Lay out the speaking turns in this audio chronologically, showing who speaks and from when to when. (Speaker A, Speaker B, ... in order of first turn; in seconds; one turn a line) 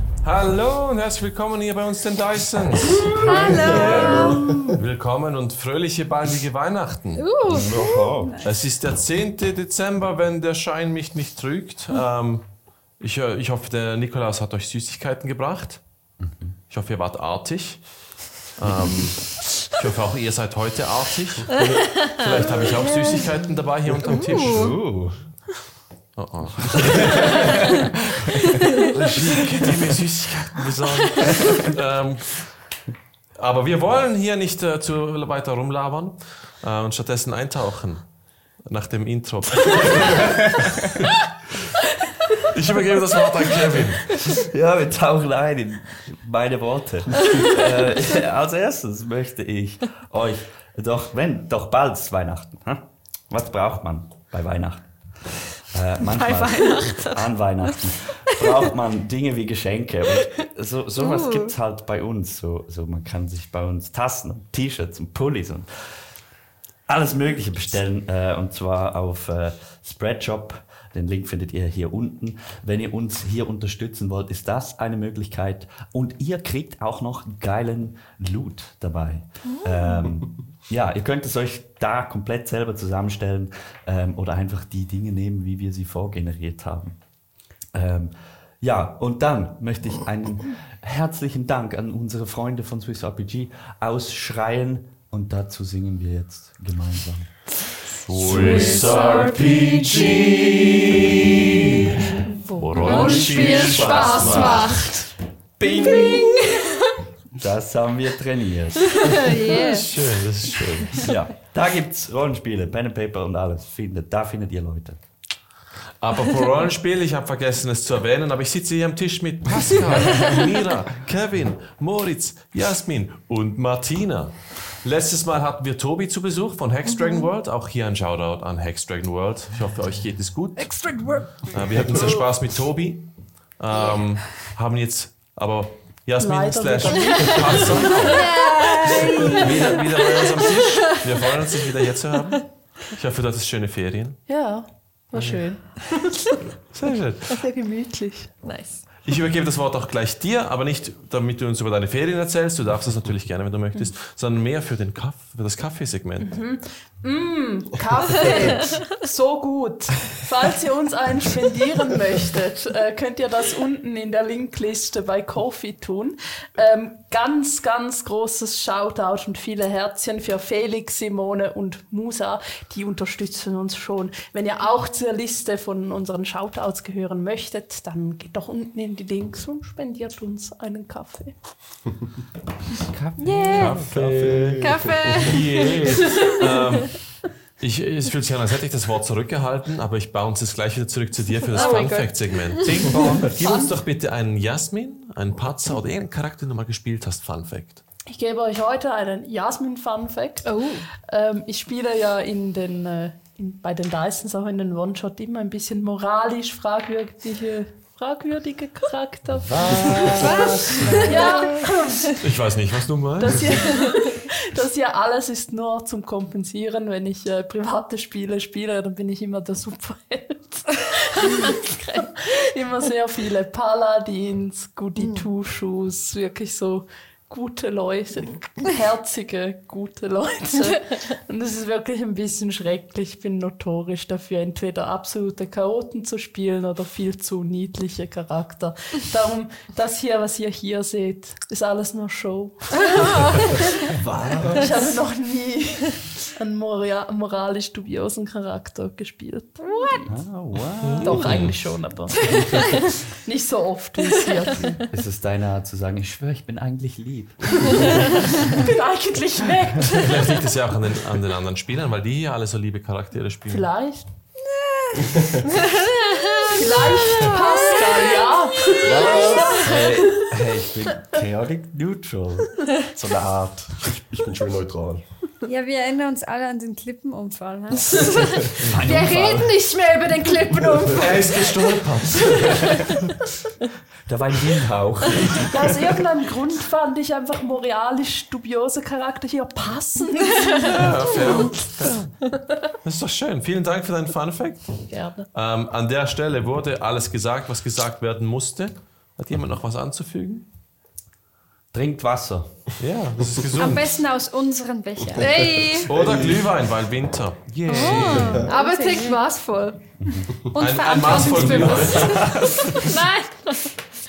Speaker A: 0.2-7.3
Speaker B: 3.0-4.8
Speaker C: 3.1-4.6
Speaker C: 7.2-8.5
Speaker B: 7.4-8.4
Speaker A: 8.4-12.4
Speaker A: 13.0-15.8
Speaker B: 16.2-16.6
Speaker A: 16.7-17.8
Speaker A: 18.6-21.5
Speaker A: 22.0-24.7
Speaker D: 24.1-24.8
Speaker B: 24.3-25.2
Speaker A: 26.1-27.7
Speaker B: 26.7-28.3
Speaker A: 28.7-32.5
Speaker A: 33.4-38.0
Speaker A: 38.6-41.1
Speaker B: 40.0-40.9
Speaker A: 42.4-44.2
Speaker B: 44.1-54.9
Speaker B: 55.6-65.7
Speaker D: 56.3-57.1
Speaker C: 61.1-61.4
Speaker B: 66.9-87.0
Speaker D: 79.5-80.0
Speaker B: 87.7-97.3
Speaker A: 98.0-102.0
Speaker D: 98.3-99.9
Speaker B: 98.5-98.8
Speaker A: 102.5-104.8
Speaker D: 102.6-105.1
Speaker C: 102.8-104.5
Speaker B: 105.6-106.3
Speaker D: 105.7-106.7
Speaker B: 107.3-109.0
Speaker D: 108.9-109.9
Speaker A: 109.6-111.1
Speaker B: 111.0-115.0
Speaker A: 116.0-130.9
Speaker D: 130.6-131.5
Speaker A: 131.4-138.2
Speaker E: 136.2-137.9
Speaker D: 137.9-140.6
Speaker C: 138.1-140.4
Speaker A: 139.2-144.2
Speaker E: 144.3-145.7
Speaker A: 145.1-145.4
Speaker A: 146.7-147.4
Speaker E: 147.3-148.3
Speaker D: 148.4-148.8
Speaker A: 149.0-156.3
Speaker E: 156.2-181.3
Speaker B: 182.8-184.5
Speaker C: 183.2-183.8
Speaker A: 183.5-187.0
Speaker F: 183.8-185.5
Speaker D: 184.6-186.5
Speaker A: 187.6-197.8
Speaker D: 191.5-192.1
Speaker C: 191.5-192.3
Speaker B: 192.7-193.4
Speaker E: 193.4-193.7
Speaker E: 198.1-212.2
Speaker D: 200.4-200.8
Speaker B: 209.4-211.2
Speaker D: 210.2-211.7
Speaker A: 212.2-213.6
Speaker E: 213.2-243.7
Speaker D: 225.0-225.2
Speaker B: 243.9-244.8
Speaker E: 244.5-250.1
Speaker B: 250.0-251.6
Speaker A: 250.8-251.6
Speaker E: 251.0-252.1
Speaker E: 253.1-254.8
Speaker B: 254.9-258.4
Speaker E: 258.4-260.4
Speaker A: 259.9-263.7
Speaker E: 263.5-264.1
Speaker C: 264.6-268.1
Speaker F: 265.1-265.3
Speaker E: 266.5-268.9
Speaker B: 268.8-273.9
Speaker D: 269.2-269.6
Speaker F: 273.9-275.0
Speaker C: 275.4-278.6
Speaker B: 278.6-279.6
Speaker D: 278.8-282.9
Speaker A: 280.9-282.9
Speaker B: 284.1-285.6
Speaker E: 285.5-291.3
Speaker A: 290.6-292.1
Speaker A: 292.8-300.5
Speaker E: 294.9-295.3
Speaker B: 301.7-302.6
Speaker A: 302.8-303.9
Speaker C: 303.5-305.8
Speaker D: 305.2-305.9
Speaker A: 305.9-308.4
Speaker F: 305.9-306.4
Speaker C: 307.6-309.2
Speaker B: 307.9-308.4
Speaker F: 308.1-308.5
Speaker D: 308.4-309.8
Speaker B: 310.0-310.3
Speaker A: 310.5-312.1
Speaker C: 310.5-313.0
Speaker D: 311.1-311.9
Speaker B: 311.4-312.7
Speaker D: 312.8-313.3